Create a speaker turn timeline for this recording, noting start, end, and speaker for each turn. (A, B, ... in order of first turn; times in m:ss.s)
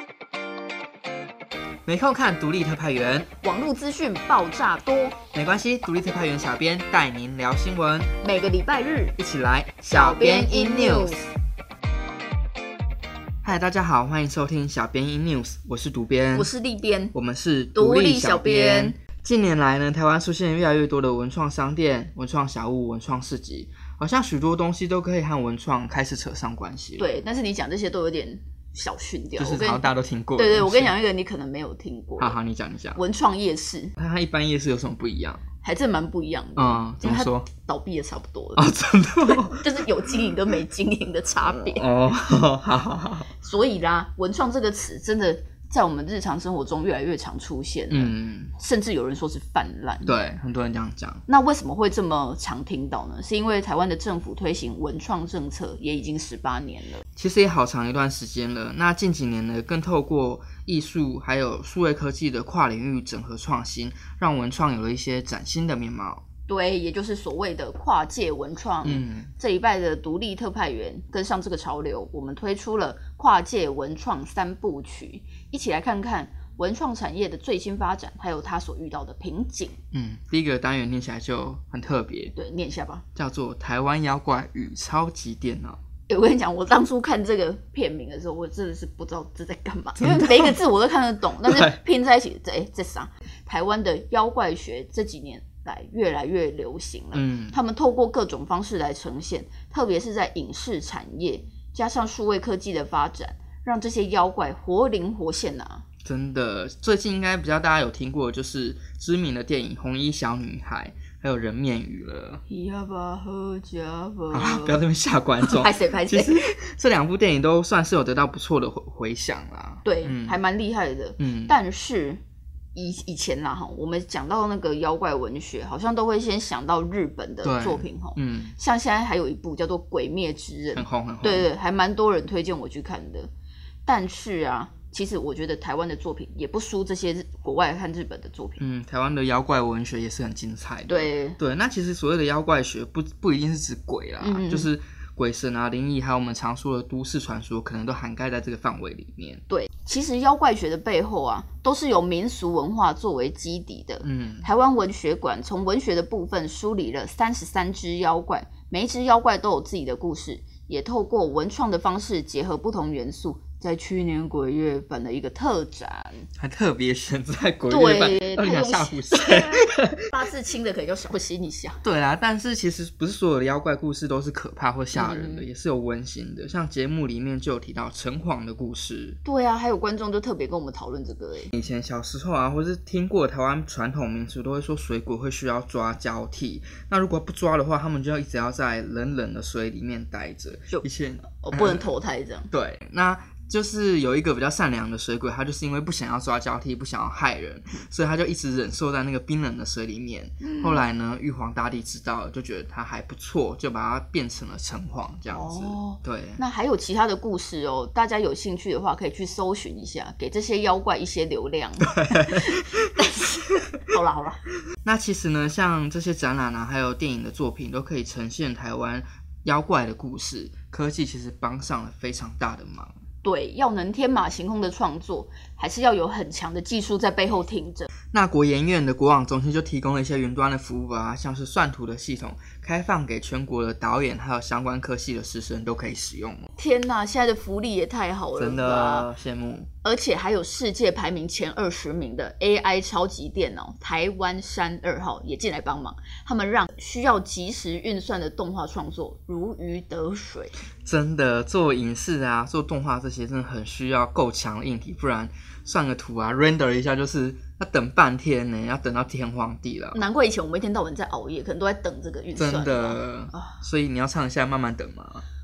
0:01.9-0:03.3 A
0:03.4-0:05.2 B
0:05.3-0:08.1 A
0:08.2-0:09.2 B
0:09.2-0:11.2 A
0:09.9-0:11.3 B
0:13.4-0:16.5 A
0:16.3-0:17.2 B
0:17.1-0:27.1 A
0:17.8-0:19.0 B
0:27.0-0:32.4 B
0:29.4-0:31.0 A
0:32.2-0:33.0 A
0:33.0-0:33.9 B
0:34.0-0:35.4 A
0:35.6-0:38.7 B
0:36.6-0:37.5 A
0:38.6-0:40.2 A
0:39.2-0:41.9 B
0:41.4-0:43.3 A
0:43.4-0:50.2 B
0:47.9-0:48.5 A
0:50.0-0:51.2 A
0:51.3-0:57.0 B
0:57.2-1:06.2 A
1:06.5-1:19.8 B
1:08.8-1:09.3 A
1:19.9-1:22.3 A
1:22.4-1:23.0 B
1:23.2-1:25.8 A
1:26.1-1:45.8 B
1:30.0-1:30.6 A
1:31.4-1:31.8 A
1:37.1-1:37.6 A
1:46.0-1:52.4 A
1:52.5-1:54.8 B
1:54.3-2:00.4 A
1:55.4-1:56.5 B
1:59.8-2:02.2 B
2:01.2-2:01.6 A
2:02.7-2:13.3 B
2:07.4-2:08.6 A
2:10.7-2:11.5 A
2:13.8-2:18.6 B
2:18.6-2:29.4 A
2:20.9-2:21.4 B
2:24.2-2:24.7 B
2:29.5-2:46.3 B
2:34.0-2:34.5 A
2:46.4-2:50.1 A
2:47.7-2:51.8 B
2:51.8-2:59.2 A
2:54.9-2:55.5 B
2:59.2-3:01.5 B
3:01.5-3:11.9 A
3:10.7-3:12.5 B
3:12.5-3:26.4 A
3:20.4-3:20.8 B
3:25.3-3:34.4 B
3:31.8-3:32.4 A
3:34.8-3:42.9 A
3:43.2-3:47.9 B
3:48.1-3:56.5 A
3:56.6-3:59.1 B
3:58.4-3:59.7 A
3:59.8-4:10.6 B
4:10.8-4:20.0 A
4:19.9-4:23.6 B
4:22.4-4:25.2 A